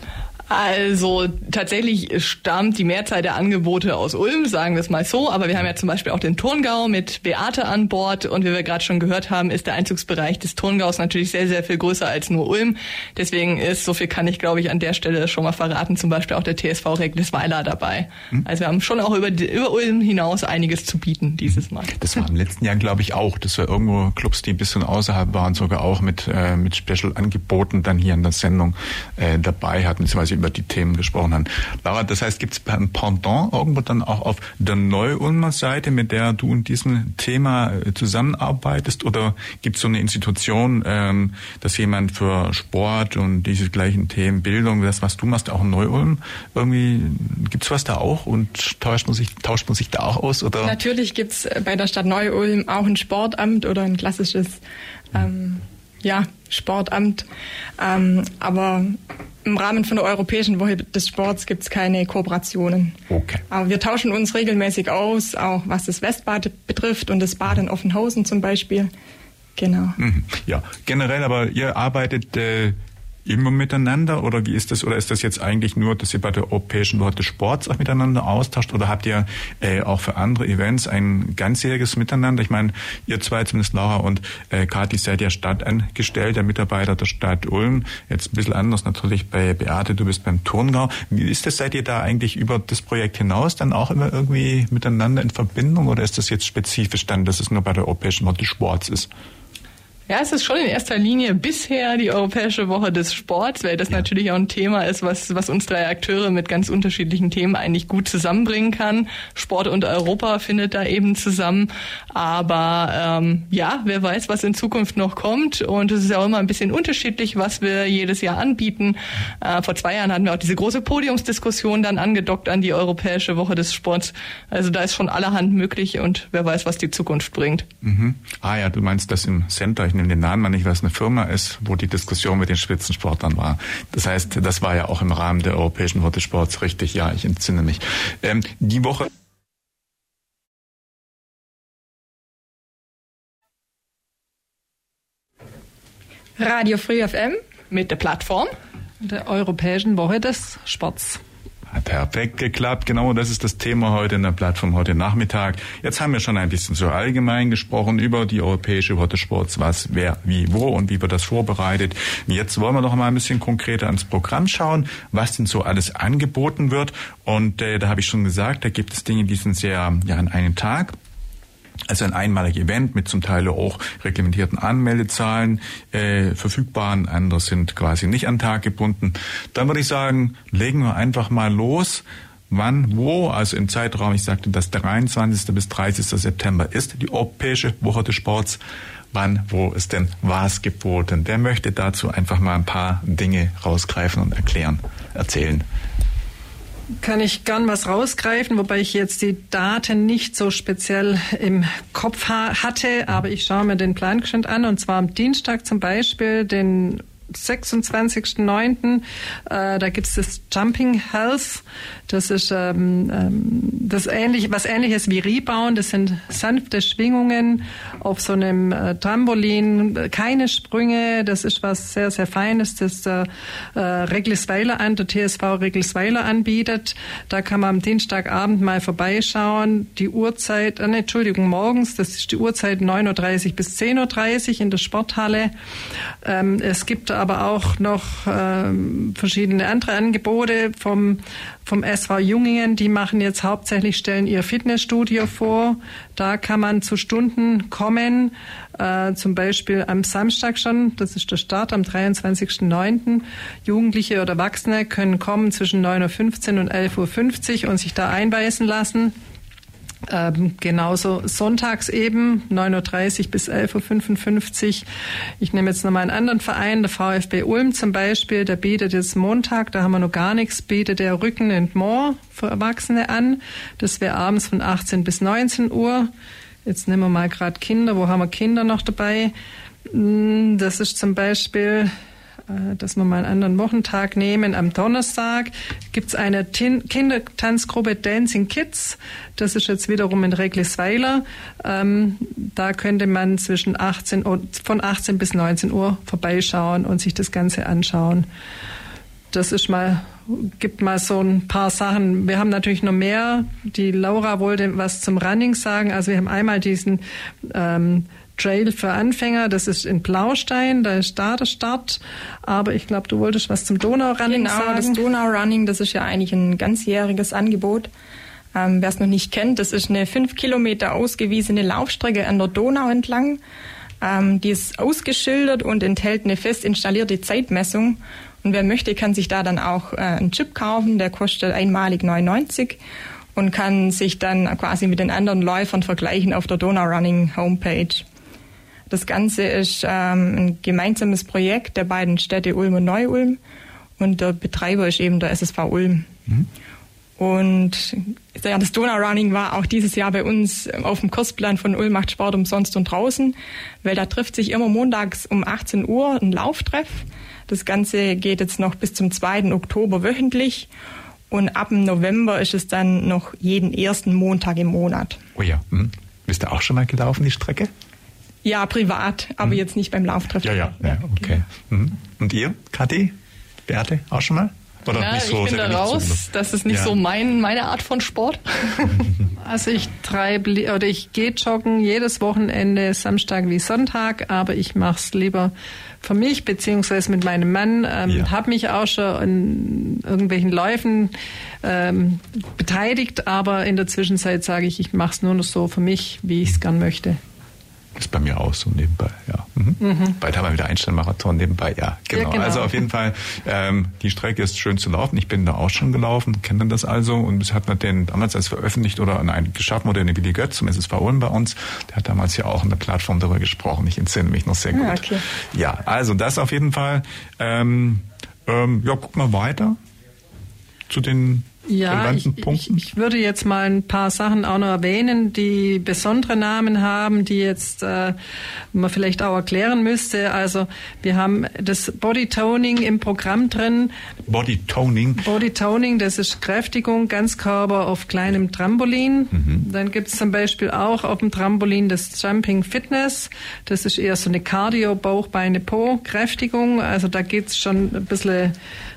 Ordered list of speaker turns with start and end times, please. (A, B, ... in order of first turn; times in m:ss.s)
0:00.5-0:22.0 A
0:21.9-0:50.8 B
0:50.6-0:54.6 C
0:55.1-0:57.3 C
0:57.8-1:08.9 C
1:03.1-1:03.4 B
1:09.6-1:10.0 C
1:10.0-1:39.1 B
1:40.1-2:07.7 A
2:07.8-2:19.1 B
2:26.4-2:27.4 C
2:27.7-2:28.5 A
2:29.0-2:31.2 D
2:31.7-2:51.0 B
2:51.9-3:08.6 B
3:09.1-3:15.6 B
3:17.0-3:55.5 D
3:56.2-4:19.1 D
4:20.1-4:24.8 D
4:25.4-4:36.1 D
4:36.6-4:39.3 D
4:39.9-4:41.9 D
4:42.5-4:58.3 D
4:59.3-5:15.0 D
5:14.3-5:17.9 C
5:18.5-5:23.4 C
5:24.0-5:32.8 C
5:33.3-5:38.0 C
5:38.9-5:43.4 C
5:44.0-5:46.1 C
5:47.2-6:00.7 C
6:01.3-6:05.2 C
6:05.3-6:07.7 B
6:08.4-6:11.3 C
6:10.4-6:13.1 B
6:13.7-6:17.0 B
6:14.9-6:19.0 A
6:19.4-6:37.2 D
6:37.9-6:59.8 B
6:39.8-6:40.2 D
6:42.1-6:42.8 D
6:54.7-6:55.2 C
7:00.9-7:02.8 B
7:01.6-7:08.2 D
7:08.7-7:13.9 D
7:14.3-7:15.2 B
7:15.2-7:28.5 D
7:19.3-7:19.6 B